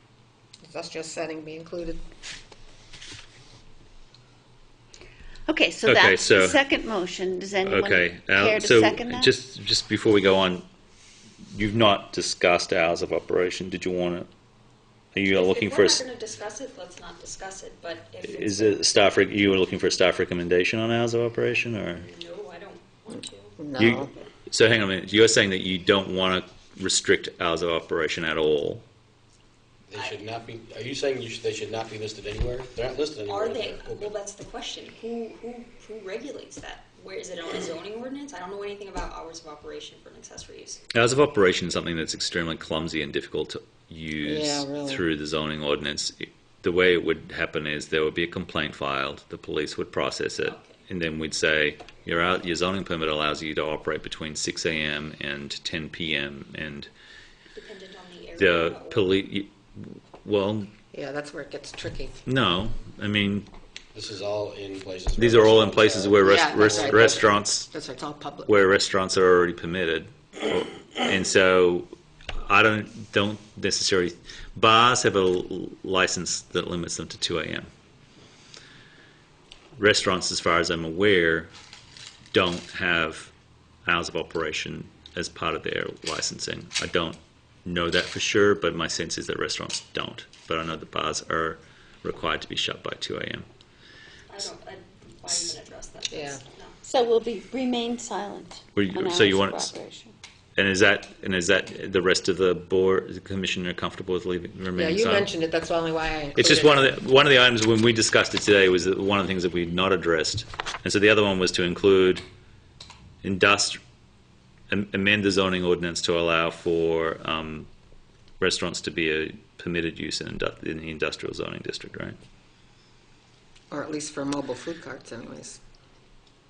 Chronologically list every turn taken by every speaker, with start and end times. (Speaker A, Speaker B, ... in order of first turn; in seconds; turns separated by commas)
Speaker A: 0.6-2.0, Speaker B: 5.5-9.3, Speaker C: 5.9-6.6, Speaker C: 7.6-10.7, Speaker C: 11.5-14.3, Speaker C: 15.1-16.0, Speaker D: 15.3-19.1, Speaker C: 18.2-22.1, Speaker D: 22.0-23.7, Speaker A: 23.6-24.1, Speaker C: 23.8-28.9, Speaker E: 29.9-34.1, Speaker D: 29.9-30.2, Speaker D: 33.3-40.8, Speaker C: 40.9-56.9, Speaker A: 44.2-45.0, Speaker D: 50.5-50.8, Speaker D: 57.5-59.2, Speaker C: 58.4-60.7, Speaker A: 60.9-62.2, Speaker C: 62.3-63.5, Speaker E: 63.9-67.3, Speaker C: 65.2-67.7, Speaker A: 66.2-68.6, Speaker C: 68.5-77.7, Speaker C: 79.8-81.5, Speaker C: 82.3-83.3, Speaker C: 83.9-93.5, Speaker D: 94.3-96.8, Speaker A: 96.1-96.4, Speaker B: 96.9-100.2, Speaker C: 98.8-99.7, Speaker C: 100.6-105.3, Speaker A: 104.7-106.9, Speaker C: 106.4-112.2, Speaker C: 113.2-113.8, Speaker C: 114.7-117.7, Speaker C: 118.4-122.2, Speaker A: 123.7-125.6